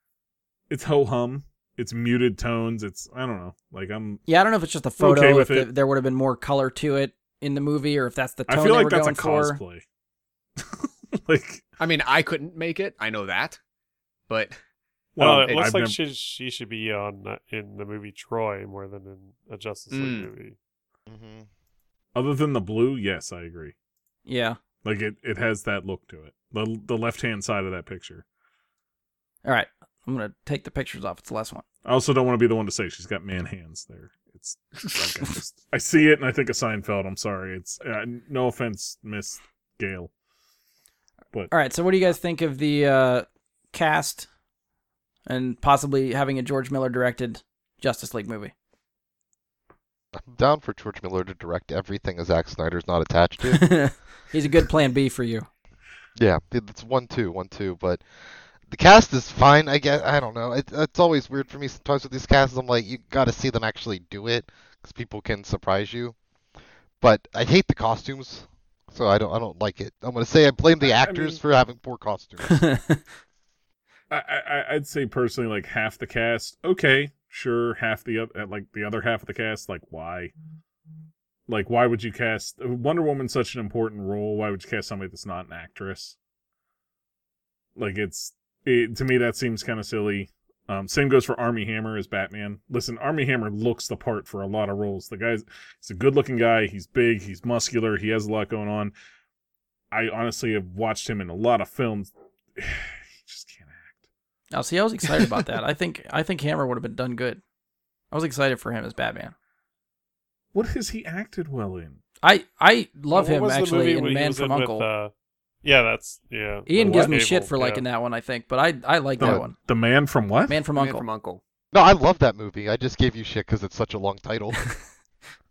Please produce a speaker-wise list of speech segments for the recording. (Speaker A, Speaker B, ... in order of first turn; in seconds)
Speaker A: 0.7-4.2, 5.0-5.7, 8.5-9.8, 10.6-11.6, 15.2-16.0, 22.1-23.7, 24.8-28.2, 31.8-40.1, 70.8-71.4, 74.1-80.3, 81.5-86.2, 87.8-98.9, 99.9-104.0, 105.1-105.4, 110.5-112.0, 116.8-117.2, 119.2-120.6
Speaker B: 4.3-9.6, 24.2-24.6, 29.4-31.6, 41.5-44.3, 45.2-48.5, 53.5-55.5, 72.5-73.0, 104.5-107.4, 108.1-109.3, 112.2-114.8, 116.7-119.5, 120.5-121.0
Speaker C: 11.8-13.6, 14.3-14.6, 15.4-15.7, 19.9-20.3, 120.7-121.4
Speaker D: 15.2-20.6, 113.1-115.1, 115.6-117.8
Speaker E: 21.1-21.5, 50.1-53.8, 56.1-66.2, 67.0-72.7, 121.7-124.8